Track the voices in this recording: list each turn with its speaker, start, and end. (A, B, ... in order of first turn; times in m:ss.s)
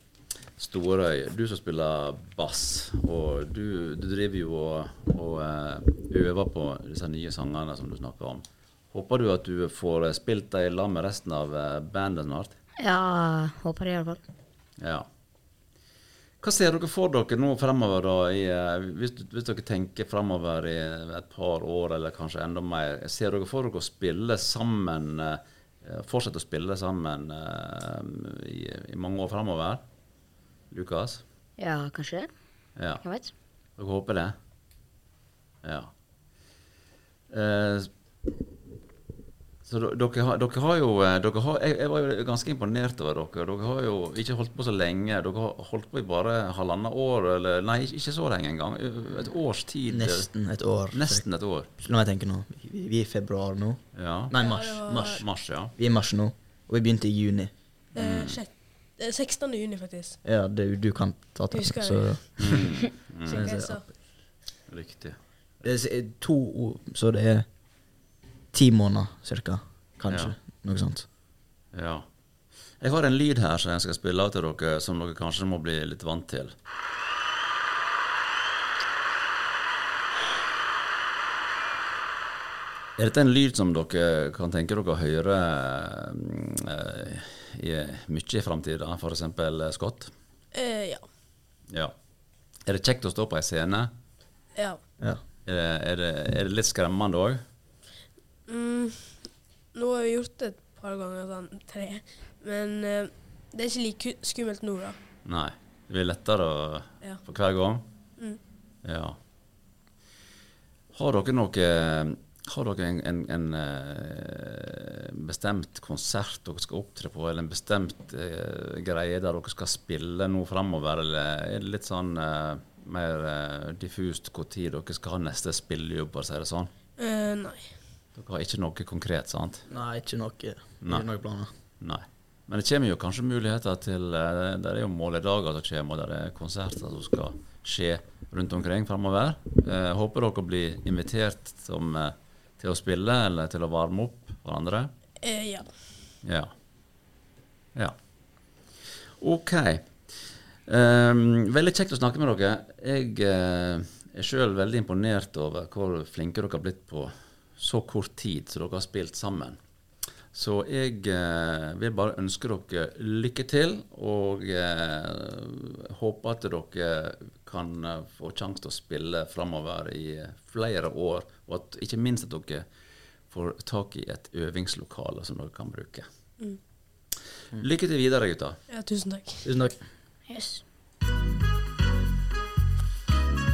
0:00.6-0:12.5 A
0:12.8-0:14.2 B
0:14.8-0:15.1 A
0:16.4-0:29.8 A
0:30.7-0:31.2 A
0:31.6-0:32.3 B
0:32.8-0:33.0 A
0:33.0-0:33.3 B
0:33.8-0:34.3 A
0:35.6-0:35.9 A
0:37.3-0:37.9 A
0:39.6-0:50.3 A
0:49.9-0:51.2 C
0:50.9-0:51.7 A
0:51.8-0:57.5 C
0:53.9-0:54.4 A
0:54.3-0:55.2 D
0:54.9-0:55.7 A
0:57.9-1:00.2 D
0:58.0-0:58.4 A
1:00.2-1:03.8 C
1:01.5-1:02.5 D
1:02.4-1:03.6 A
1:03.3-1:03.8 D
1:04.7-1:05.6 A
1:05.6-1:07.4 C
1:08.5-1:11.0 C
1:10.1-1:10.3 A
1:11.7-1:12.0 A
1:12.8-1:16.5 A
1:23.0-1:30.1 A
1:30.5-1:31.1 D
1:31.7-1:31.9 A
1:32.6-1:33.9 A
1:35.4-1:37.4 A
1:38.5-1:45.0 D
1:45.2-1:47.8 A
1:48.8-1:49.2 A
1:50.9-2:06.7 A
2:07.0-2:07.7 D
2:08.1-2:09.6 A
2:09.7-2:11.5 C
2:10.8-2:11.1 A
2:11.8-2:24.9 A
2:25.2-2:25.7 D
2:26.2-2:26.5 A
2:29.2-2:29.9 A
2:30.7-2:39.6 A
2:40.3-2:52.6 A
2:53.3-2:56.0 A
2:57.5-2:58.6 A
2:58.7-2:59.6 D
2:59.4-2:59.8 C
3:00.3-3:00.6 B